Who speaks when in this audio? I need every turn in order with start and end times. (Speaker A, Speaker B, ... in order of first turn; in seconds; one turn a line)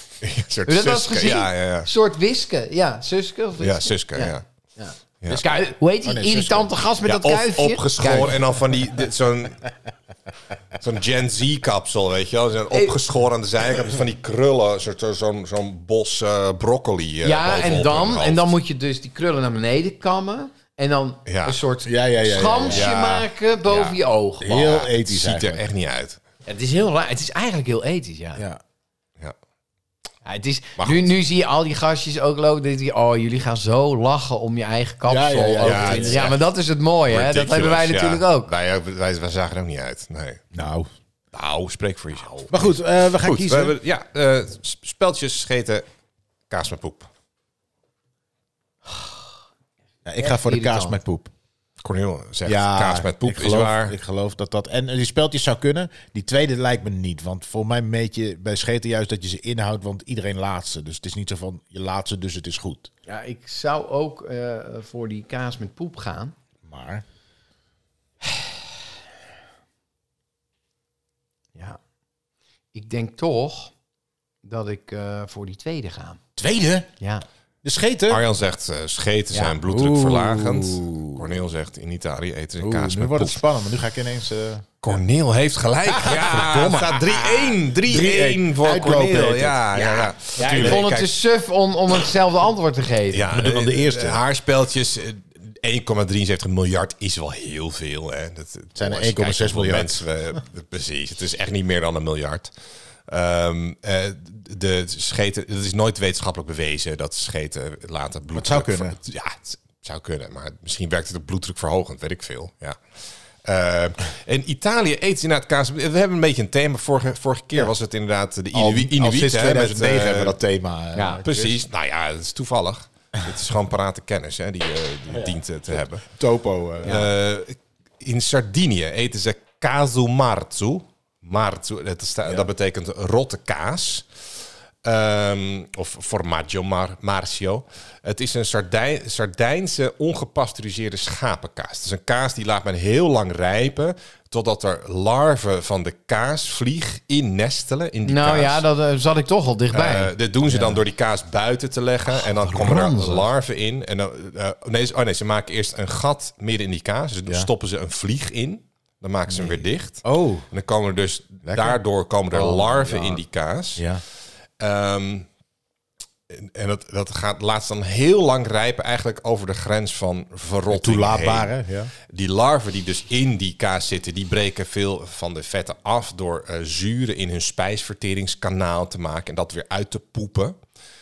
Speaker A: 0.2-1.9
Speaker B: 0.7-8.4
Speaker A: 3.6-4.4
Speaker C: 6.0-6.7
Speaker A: 7.0-9.7
Speaker A: 10.8-18.5
Speaker B: 12.7-13.0
Speaker B: 17.2-24.8
Speaker A: 21.3-21.6
Speaker C: 21.8-23.2
Speaker A: 22.7-24.0
Speaker C: 24.4-25.6
Speaker A: 24.5-26.2
Speaker B: 26.4-28.4
Speaker B: 30.2-38.5
Speaker A: 30.8-31.1
Speaker C: 35.1-36.3
Speaker A: 35.6-36.4
Speaker A: 37.1-40.4
Speaker C: 40.5-40.9
Speaker A: 41.3-45.9
Speaker C: 42.5-43.8
Speaker A: 46.5-47.1
Speaker C: 50.0-51.3
Speaker B: 50.2-51.0
Speaker A: 51.8-54.0
Speaker C: 52.4-62.9
Speaker B: 63.1-66.3
Speaker C: 66.6-67.0
Speaker B: 72.7-73.7
Speaker B: 74.4-76.2
Speaker C: 76.4-76.9
Speaker B: 77.0-77.2
Speaker C: 77.6-78.2
Speaker A: 78.1-83.4
Speaker B: 79.3-81.2
Speaker C: 82.6-84.7
Speaker A: 84.8-91.1
Speaker B: 86.0-87.6
Speaker C: 87.8-90.9
Speaker B: 90.0-93.3
Speaker A: 93.1-102.5
Speaker C: 93.3-94.2
Speaker C: 98.8-100.0
Speaker A: 103.1-112.8
Speaker C: 108.3-109.0
Speaker A: 113.4-120.4
Speaker C: 118.5-121.6
Speaker B: 120.9-121.2
Speaker A: 121.2-126.1
Speaker C: 125.1-127.0
Speaker A: 126.8-134.1
Speaker B: 126.8-127.1
Speaker A: 134.8-148.6
Speaker B: 148.1-150.8
Speaker A: 149.7-163.9
Speaker B: 152.1-153.2
Speaker C: 160.1-160.4
Speaker C: 161.4-161.8
Speaker C: 162.3-163.2
Speaker C: 163.8-164.0
Speaker A: 164.6-165.2
Speaker A: 166.3-171.5
Speaker C: 170.7-171.9
Speaker A: 172.1-180.6